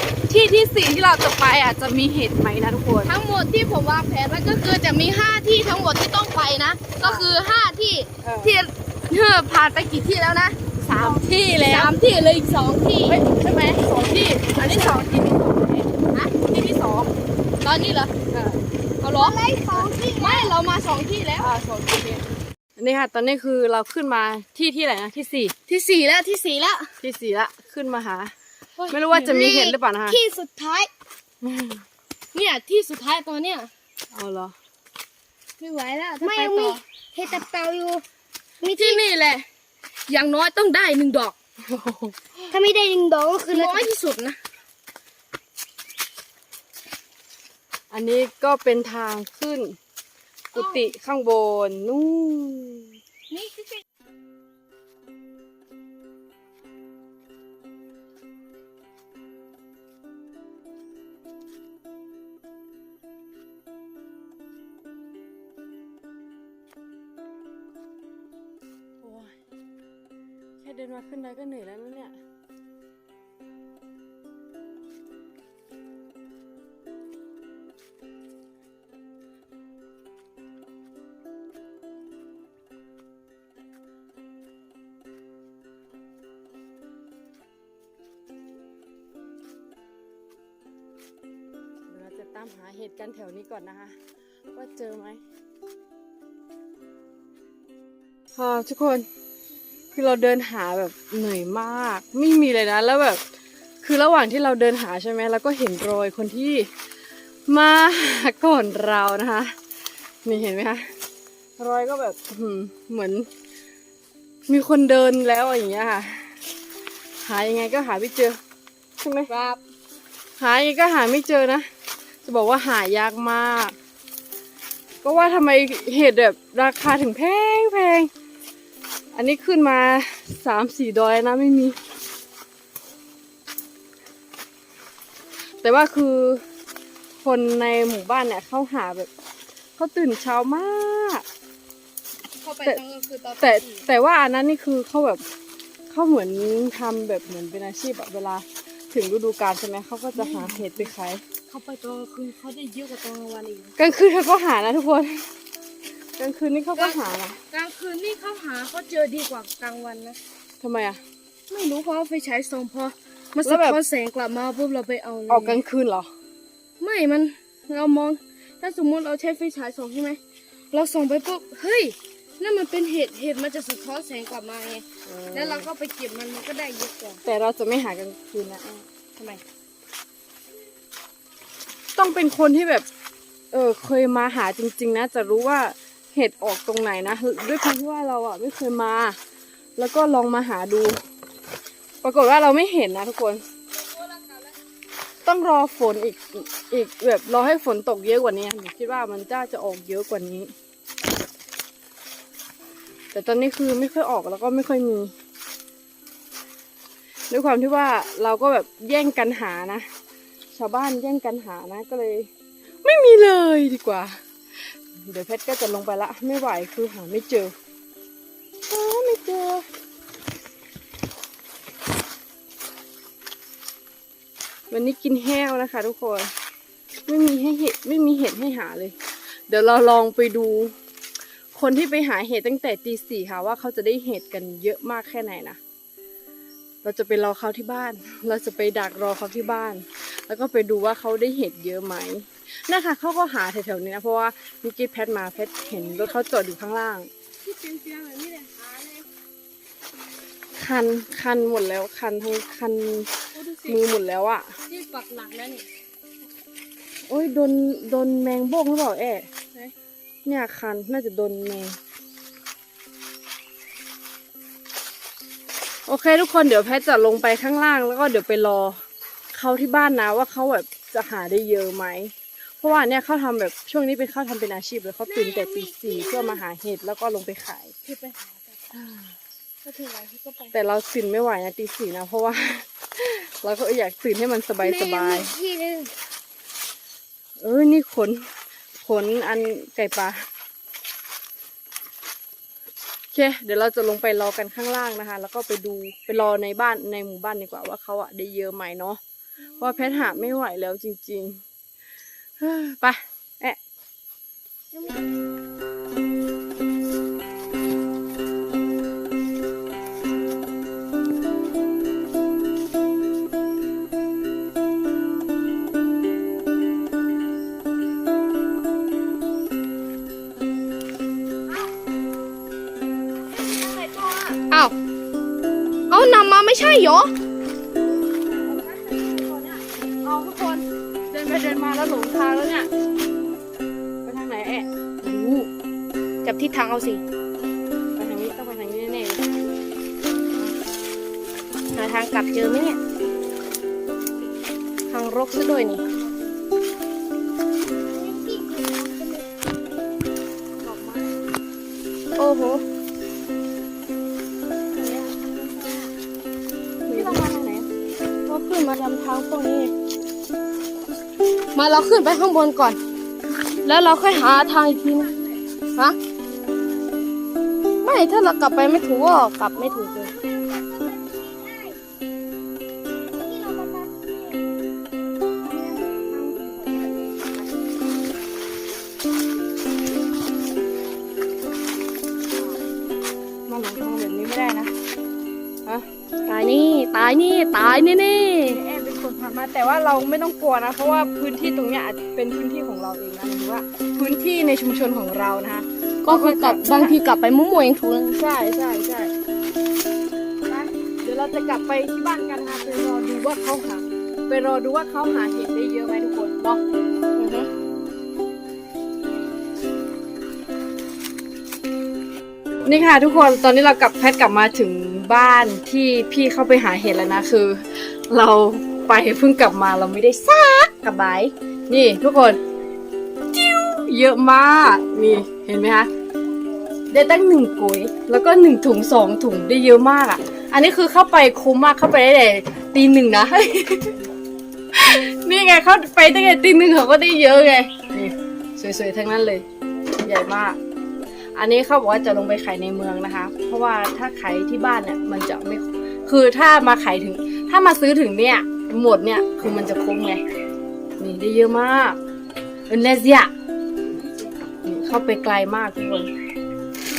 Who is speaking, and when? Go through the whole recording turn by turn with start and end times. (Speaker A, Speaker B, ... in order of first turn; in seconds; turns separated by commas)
Speaker A: 0.3-3.1, Speaker B: 3.0-13.2, Speaker A: 7.0-7.3, Speaker A: 8.2-8.6, Speaker A: 10.8-11.9, Speaker A: 13.1-15.9, Speaker B: 14.6-15.1, Speaker A: 16.4-17.1, Speaker B: 17.6-18.1, Speaker A: 18.3-18.6, Speaker B: 19.0-21.5, Speaker C: 19.1-20.6, Speaker A: 21.4-25.5, Speaker B: 25.7-27.0, Speaker A: 27.0-28.3, Speaker B: 28.8-29.6, Speaker A: 28.9-30.2, Speaker C: 29.3-30.9, Speaker A: 31.4-31.8, Speaker B: 32.3-33.7, Speaker A: 34.1-34.5, Speaker B: 35.6-36.8, Speaker C: 36.2-38.0, Speaker C: 38.6-39.0, Speaker B: 38.6-39.5, Speaker B: 40.1-41.4, Speaker A: 41.6-42.4, Speaker C: 42.5-43.9, Speaker B: 43.5-44.4, Speaker A: 47.9-49.8, Speaker B: 50.5-50.9, Speaker A: 50.5-53.0, Speaker B: 53.3-53.8, Speaker A: 69.0-69.3, Speaker A: 70.6-72.2, Speaker A: 91.9-94.0, Speaker A: 94.5-95.2, Speaker A: 98.3-99.1, Speaker A: 99.9-103.2, Speaker A: 103.8-106.7, Speaker A: 107.5-109.5, Speaker A: 110.2-110.9, Speaker A: 111.6-113.3, Speaker A: 114.5-116.4, Speaker A: 117.2-118.4, Speaker A: 119.0-119.3, Speaker B: 119.3-119.6, Speaker A: 120.4-121.7, Speaker A: 122.2-123.8, Speaker A: 125.0-128.1, Speaker A: 129.1-131.8, Speaker A: 135.6-136.4, Speaker A: 137.2-139.1, Speaker A: 139.8-141.2, Speaker B: 142.4-143.9, Speaker A: 143.4-145.2, Speaker A: 145.9-151.2, Speaker B: 150.1-150.9, Speaker B: 151.5-153.8, Speaker A: 153.8-155.2, Speaker A: 156.2-157.4, Speaker B: 157.5-160.2, Speaker A: 160.6-161.0, Speaker B: 161.5-165.6, Speaker A: 163.4-163.8, Speaker A: 165.3-166.1, Speaker B: 166.8-170.2, Speaker B: 170.7-177.2, Speaker A: 175.1-175.7, Speaker A: 177.2-178.9, Speaker A: 181.9-182.9, Speaker A: 183.5-189.2, Speaker A: 189.8-191.0, Speaker A: 192.0-193.4, Speaker B: 193.9-194.5, Speaker A: 195.2-200.5, Speaker A: 203.1-205.1, Speaker A: 207.3-209.9, Speaker A: 210.5-212.3, Speaker A: 212.8-214.2, Speaker A: 215.0-217.5, Speaker A: 218.7-219.7, Speaker A: 224.7-226.3, Speaker A: 227.1-228.9, Speaker A: 229.5-230.8, Speaker A: 231.5-235.6, Speaker A: 236.8-247.1, Speaker B: 247.4-249.1, Speaker A: 250.6-253.2, Speaker B: 253.3-253.8, Speaker A: 253.7-254.5, Speaker B: 254.7-255.7, Speaker A: 257.1-259.3, Speaker A: 260.2-261.8, Speaker A: 265.9-268.8, Speaker A: 269.3-277.7, Speaker C: 275.1-276.4, Speaker B: 277.9-278.6, Speaker A: 278.7-279.1, Speaker B: 279.6-280.6, Speaker A: 280.5-285.3, Speaker C: 284.6-285.9, Speaker A: 287.4-288.3, Speaker A: 288.8-290.3, Speaker A: 293.1-299.0, Speaker B: 299.5-300.3, Speaker A: 299.6-301.4, Speaker A: 302.4-303.6, Speaker B: 304.7-305.0, Speaker B: 323.4-324.7, Speaker B: 325.9-327.1, Speaker A: 327.8-332.7, Speaker A: 334.1-335.5, Speaker B: 336.2-337.0, Speaker A: 338.0-339.4, Speaker B: 341.7-342.8, Speaker B: 344.9-345.9, Speaker A: 345.8-346.4, Speaker C: 347.7-349.6, Speaker A: 350.6-351.1, Speaker B: 352.2-352.6, Speaker C: 355.1-355.8, Speaker A: 356.9-357.7, Speaker B: 356.9-357.2, Speaker B: 358.3-359.7, Speaker B: 361.5-362.8, Speaker B: 363.6-365.1, Speaker B: 367.8-370.1, Speaker C: 369.6-371.8, Speaker C: 373.1-374.5, Speaker B: 375.5-377.5, Speaker A: 383.5-384.7, Speaker B: 386.2-388.6, Speaker A: 388.5-397.0, Speaker B: 396.0-398.4, Speaker A: 398.3-399.1, Speaker A: 400.5-406.6, Speaker B: 407.2-407.5, Speaker A: 412.6-422.4, Speaker A: 423.3-425.9, Speaker A: 426.9-434.0, Speaker A: 434.7-439.4, Speaker A: 440.0-440.6, Speaker A: 441.4-450.2, Speaker A: 451.0-452.0, Speaker A: 452.7-453.3, Speaker A: 454.6-456.1